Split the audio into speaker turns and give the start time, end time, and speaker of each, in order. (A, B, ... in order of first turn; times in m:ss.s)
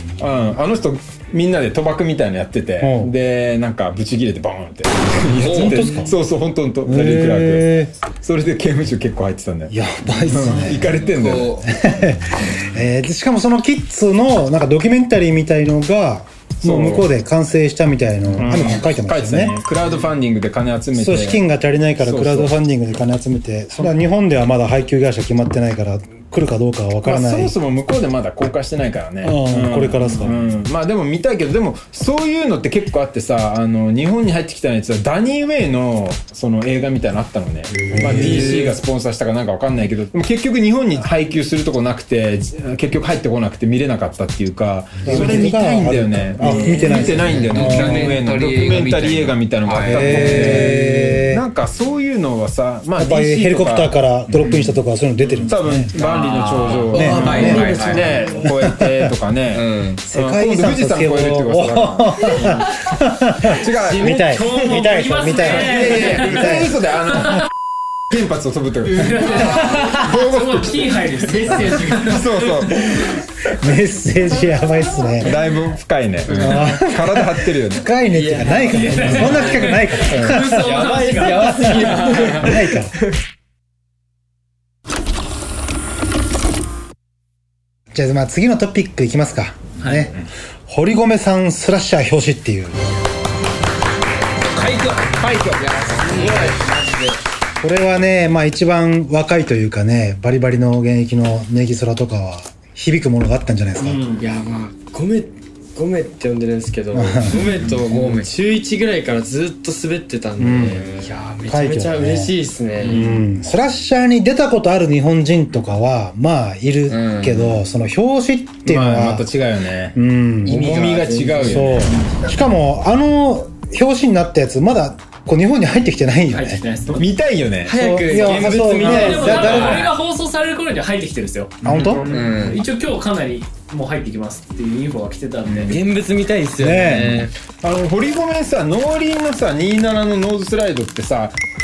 0:00.2-0:09.7 A
0:02.8-0:03.1 B
0:05.4-0:06.0 C
0:05.4-0:06.1 B
0:06.8-0:07.9 B
0:09.7-0:11.0 B
0:10.2-0:11.6 A
0:11.1-0:11.6 C
0:11.6-0:19.6 B
0:16.6-0:17.1 A
0:18.4-0:21.4 A
0:20.9-0:27.5 B
0:22.0-0:22.5 A
0:27.0-0:53.9 A
0:29.2-0:30.5 B
0:37.9-0:38.6 B
0:45.0-0:48.2 B
0:46.4-0:50.7 C
0:49.9-0:51.4 B
0:53.0-0:55.9 B
0:55.5-1:02.4 A
0:55.9-0:58.2 C
0:56.9-0:58.5 D
0:56.9-0:57.8 B
0:58.4-0:59.1 B
0:59.5-1:00.0 C
1:00.1-1:06.8 B
1:03.5-1:04.2 A
1:03.7-1:04.8 D
1:04.3-1:06.3 E
1:05.5-1:07.4 A
1:08.1-1:13.5 A
1:09.0-1:12.8 E
1:13.6-1:15.4 B
1:15.2-1:17.9 A
1:16.3-1:22.9 B
1:18.1-1:22.9 D
1:18.7-1:22.4 E
1:20.1-1:20.4 A
1:27.9-1:30.2 B
1:29.8-1:30.1 E
1:30.7-1:32.9 B
1:34.4-1:36.9 C
1:36.0-1:37.1 D
1:37.6-1:44.0 B
1:43.8-1:44.2 E
1:44.2-1:53.1 D
1:46.9-1:47.4 B
1:47.8-1:48.3 C
1:50.4-1:50.8 B
1:51.5-1:59.2 B
1:56.9-1:57.6 C
1:58.6-2:01.9 A
1:59.9-2:06.6 B
2:00.5-2:02.0 C
2:06.3-2:07.1 E
2:07.0-2:07.7 A
2:07.6-2:09.9 D
2:07.7-2:09.9 B
2:08.7-2:11.6 E
2:11.6-2:12.1 B
2:11.6-2:12.2 A
2:12.1-2:12.6 C
2:12.1-2:15.8 E
2:15.6-2:17.3 D
2:16.6-2:17.3 B
2:17.6-2:21.3 A